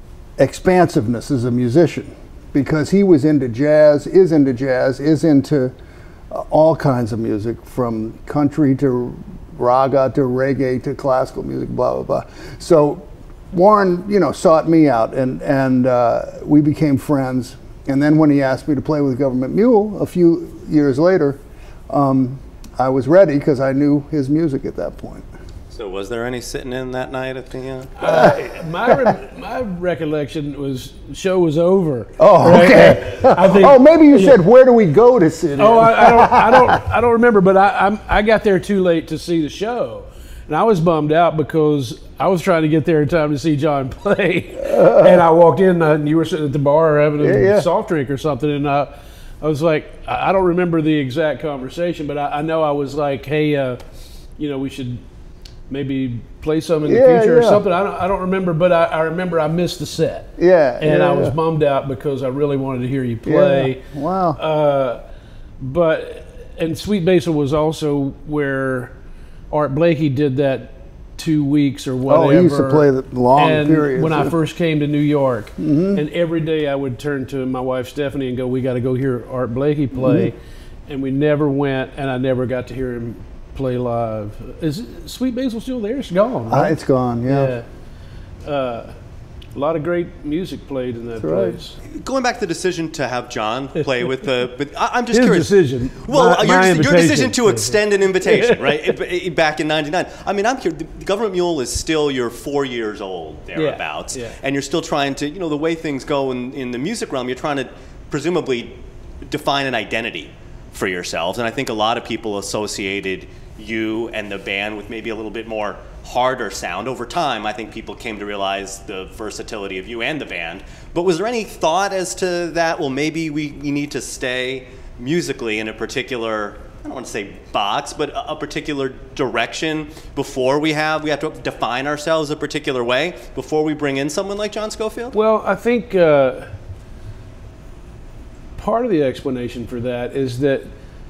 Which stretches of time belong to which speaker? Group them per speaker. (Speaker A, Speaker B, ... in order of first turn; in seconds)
Speaker A: 0.4-5.7, 6.3-25.3, 28.0-29.2, 32.2-36.8, 44.7-45.2, 47.2-47.7, 56.9-57.6, 60.4-61.4, 63.2-64.4, 72.1-74.3, 75.6-76.0, 80.0-80.3, 86.5-87.6, 91.2-91.6
Speaker B: 25.7-28.0, 91.9-95.5, 96.0-135.2
Speaker C: 28.0-34.4, 35.6-48.9, 49.4-53.8, 54.4-55.0, 55.7-60.3, 60.8-63.8, 64.3-65.0, 65.6-68.9, 69.5-80.4, 80.9-86.8, 87.3-87.7, 88.5-88.9, 89.5-91.8, 95.1-98.8, 103.5-104.3, 135.1-136.5, 138.6-140.7